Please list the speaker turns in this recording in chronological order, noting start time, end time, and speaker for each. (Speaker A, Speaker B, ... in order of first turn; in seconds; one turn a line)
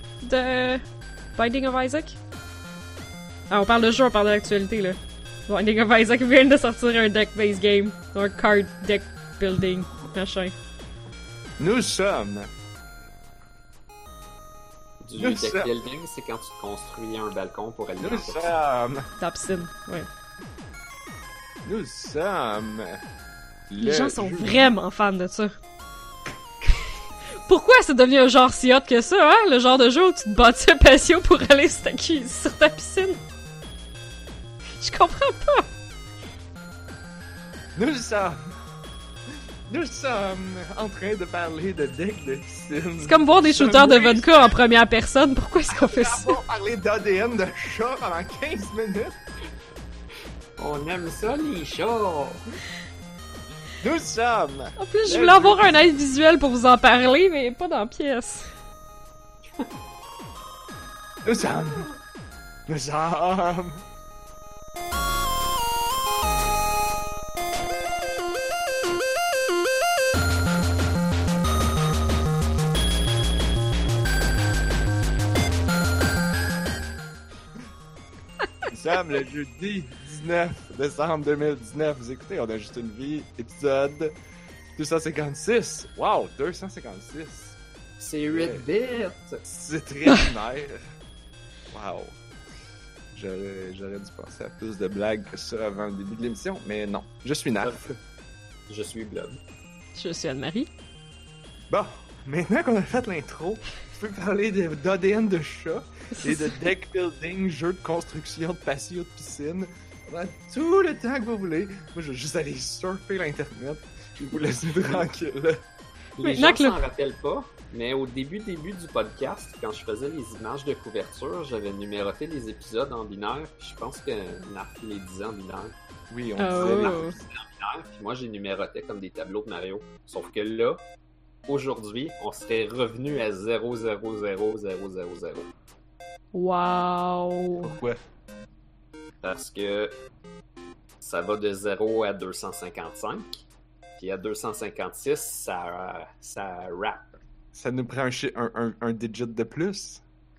Speaker A: 0.2-0.8
Speaker A: 1.3-2.1
Speaker A: 3.5-10.5
Speaker B: 11.6-12.5
Speaker C: 15.0-18.5
Speaker B: 15.2-15.7
Speaker B: 18.0-19.1
Speaker A: 19.2-20.1
Speaker B: 21.6-23.0
Speaker B: 23.7-24.7
Speaker A: 23.8-25.5
Speaker A: 27.4-33.2
Speaker A: 34.8-35.7
Speaker B: 37.7-38.5
Speaker B: 39.7-44.5
Speaker A: 43.0-46.4
Speaker B: 45.7-49.1
Speaker C: 50.6-52.4
Speaker B: 53.8-55.8
Speaker A: 54.8-58.5
Speaker B: 61.2-61.9
Speaker B: 62.7-63.8
Speaker B: 78.7-84.1
Speaker B: 84.8-87.6
Speaker C: 88.0-89.4
Speaker B: 88.3-88.6
Speaker B: 89.5-90.8
Speaker B: 91.7-92.2
Speaker B: 93.1-98.0
Speaker C: 97.6-97.9
Speaker C: 98.7-99.4
Speaker A: 99.9-100.7
Speaker B: 101.7-115.6
Speaker A: 106.1-106.6
Speaker C: 116.2-125.7
Speaker A: 116.2-116.8
Speaker B: 126.1-127.2
Speaker A: 126.4-127.1
Speaker C: 126.4-130.8
Speaker C: 131.5-135.5
Speaker A: 136.3-137.8
Speaker B: 137.6-138.0
Speaker C: 139.2-139.9
Speaker C: 141.0-143.4
Speaker C: 144.0-147.1
Speaker B: 147.5-150.0